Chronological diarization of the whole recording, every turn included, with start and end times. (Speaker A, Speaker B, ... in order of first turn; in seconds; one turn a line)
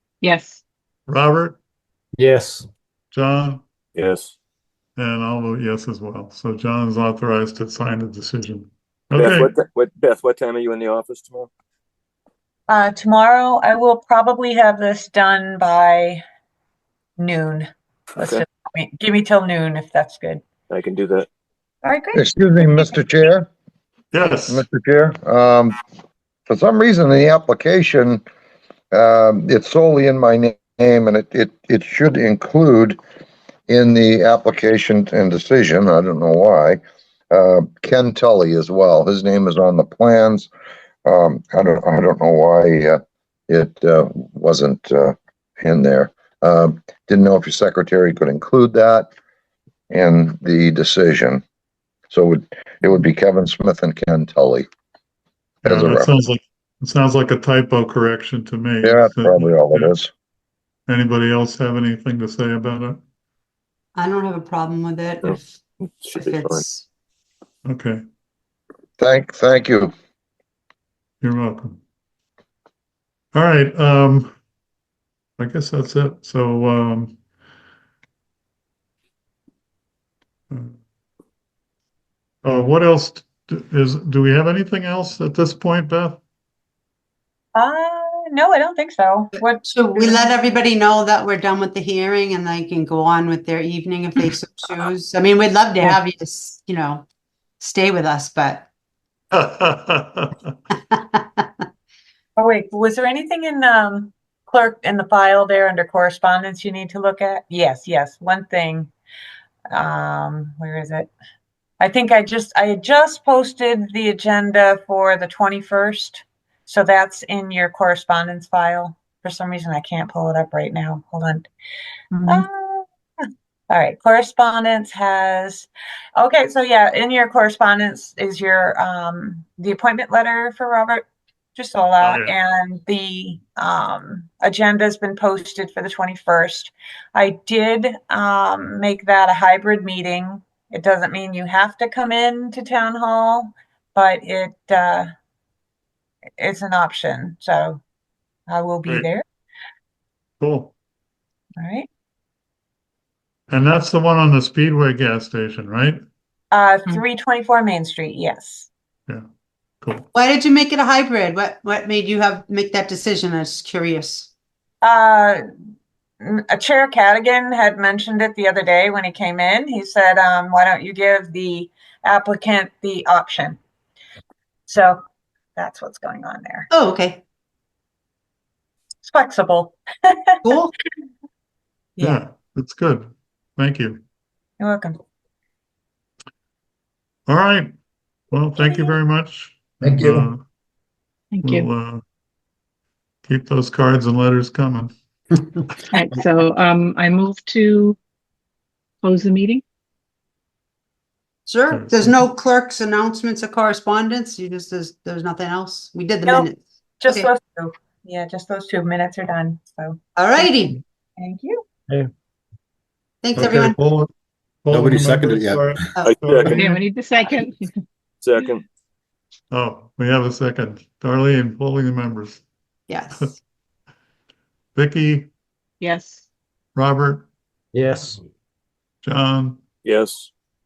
Speaker A: 0.2-0.6
Speaker B: 1.1-1.6
Speaker C: 2.2-2.7
Speaker B: 3.1-3.6
Speaker D: 4.0-4.3
Speaker B: 5.0-9.5
Speaker D: 9.1-11.5
Speaker E: 12.7-16.2
Speaker E: 17.2-20.4
Speaker D: 18.2-18.4
Speaker D: 20.7-21.3
Speaker E: 21.8-22.9
Speaker F: 22.1-23.5
Speaker B: 24.1-24.6
Speaker F: 24.5-25.7
Speaker F: 26.5-28.2
Speaker F: 28.9-33.0
Speaker F: 33.7-36.8
Speaker F: 37.3-40.5
Speaker F: 41.0-49.1
Speaker F: 49.9-51.4
Speaker F: 52.1-54.7
Speaker F: 55.6-56.1
Speaker B: 55.6-59.9
Speaker F: 58.8-60.1
Speaker B: 60.9-63.0
Speaker G: 64.0-65.5
Speaker D: 65.2-66.6
Speaker G: 66.1-66.8
Speaker B: 67.6-68.0
Speaker F: 69.0-69.9
Speaker B: 71.2-71.8
Speaker B: 73.3-74.3
Speaker B: 75.4-77.2
Speaker B: 80.5-80.8
Speaker B: 82.4-86.2
Speaker E: 87.5-90.3
Speaker G: 89.4-97.0
Speaker G: 97.6-98.7
Speaker B: 99.3-100.5
Speaker G: 100.9-101.6
Speaker E: 102.4-108.9
Speaker E: 109.7-111.1
Speaker E: 111.8-121.5
Speaker E: 122.2-131.0
Speaker E: 131.6-145.1
Speaker B: 132.0-132.3
Speaker E: 146.4-147.8
Speaker E: 148.5-149.2
Speaker B: 150.4-150.7
Speaker E: 151.6-151.9
Speaker B: 153.5-156.0
Speaker E: 156.5-158.7
Speaker B: 159.8-160.1
Speaker G: 160.1-164.3
Speaker E: 164.8-165.4
Speaker E: 166.2-173.6
Speaker E: 174.7-175.0
Speaker E: 175.6-176.7
Speaker G: 176.7-177.2
Speaker E: 179.0-180.4
Speaker G: 180.4-180.7
Speaker B: 182.0-184.0
Speaker E: 184.6-185.0
Speaker B: 187.3-187.7
Speaker B: 188.3-190.4
Speaker E: 188.6-188.9
Speaker C: 189.8-190.3
Speaker A: 191.3-191.7
Speaker B: 191.4-192.0
Speaker B: 193.2-194.9
Speaker A: 195.9-198.0
Speaker A: 199.0-199.6
Speaker G: 201.4-207.3
Speaker B: 201.7-202.2
Speaker E: 207.0-211.6
Speaker G: 210.2-210.8
Speaker G: 213.2-213.8
Speaker B: 213.3-214.1
Speaker B: 214.6-216.8
Speaker C: 214.7-216.5
Speaker D: 216.0-216.6
Speaker A: 216.5-217.7
Speaker D: 218.2-218.6
Speaker B: 219.5-222.4
Speaker G: 222.9-223.4
Speaker B: 224.7-225.3
Speaker A: 225.8-226.2
Speaker B: 226.8-227.2
Speaker C: 227.7-228.2
Speaker B: 229.0-229.6
Speaker D: 229.8-230.3